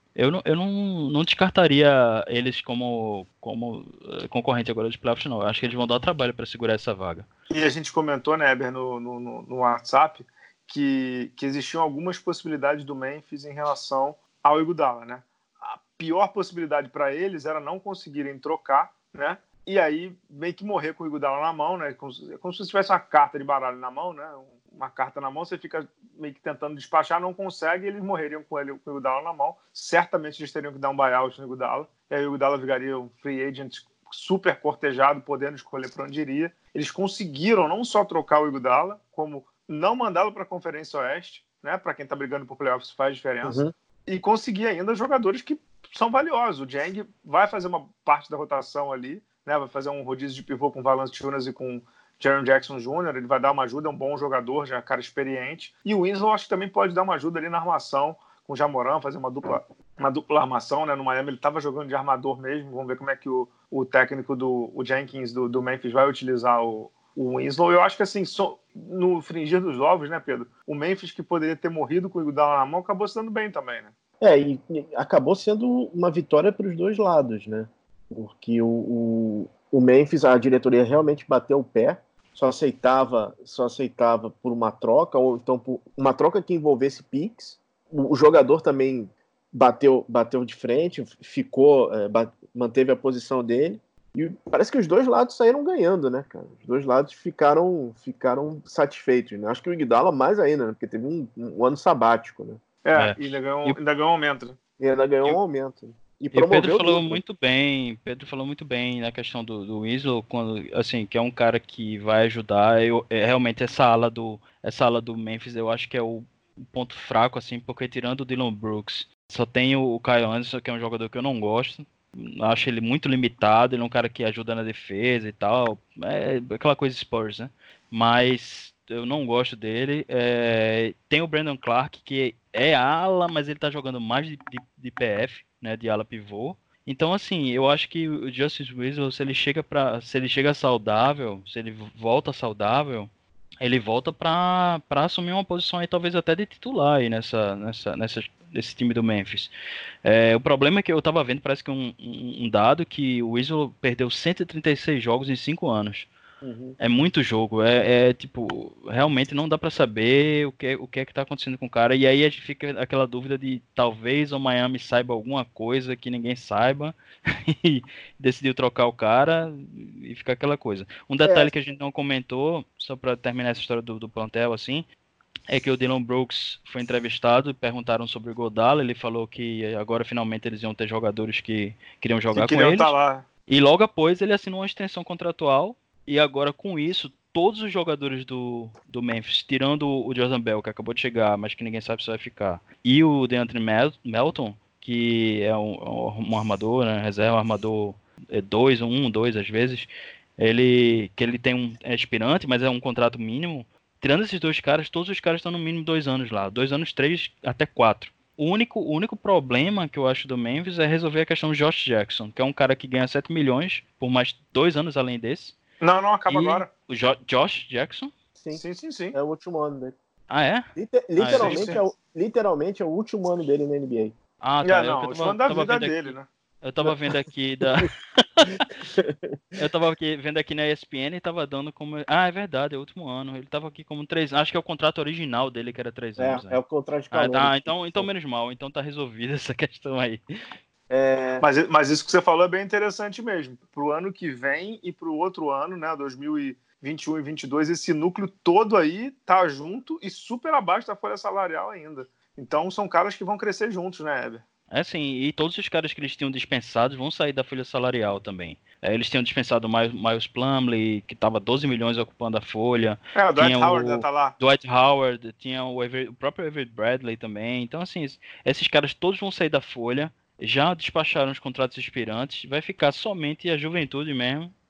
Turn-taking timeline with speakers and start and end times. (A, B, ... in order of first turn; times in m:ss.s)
0:00.2-0:07.3 A
0:07.5-1:13.9 B
0:43.4-0:43.7 C
1:14.2-1:42.6 C
1:42.8-1:44.6 B
1:43.0-1:43.8 A
1:44.8-1:47.2 C
1:46.3-2:23.1 A
2:23.6-2:29.5 A
2:30.0-2:36.1 A
2:36.4-2:36.8 C
2:36.8-2:54.9 A
2:51.2-2:51.5 C
2:55.5-3:02.9 A
3:02.3-3:03.2 B
3:03.5-3:35.6 A
3:35.8-3:36.7 B
3:36.3-3:38.1 A
3:38.4-3:38.6 C
3:38.5-3:39.2 B
3:39.1-3:39.9 C
3:40.3-3:41.7 A
3:40.8-3:44.1 C
3:41.3-3:41.8 B
3:44.4-3:48.8 A
3:44.6-3:46.2 B
3:48.9-3:49.6 C
3:49.6-4:00.2 A
3:56.2-3:58.1 C
4:00.9-4:01.4 C
4:01.4-4:14.4 B
4:14.7-4:34.5 A
4:23.1-4:24.4 B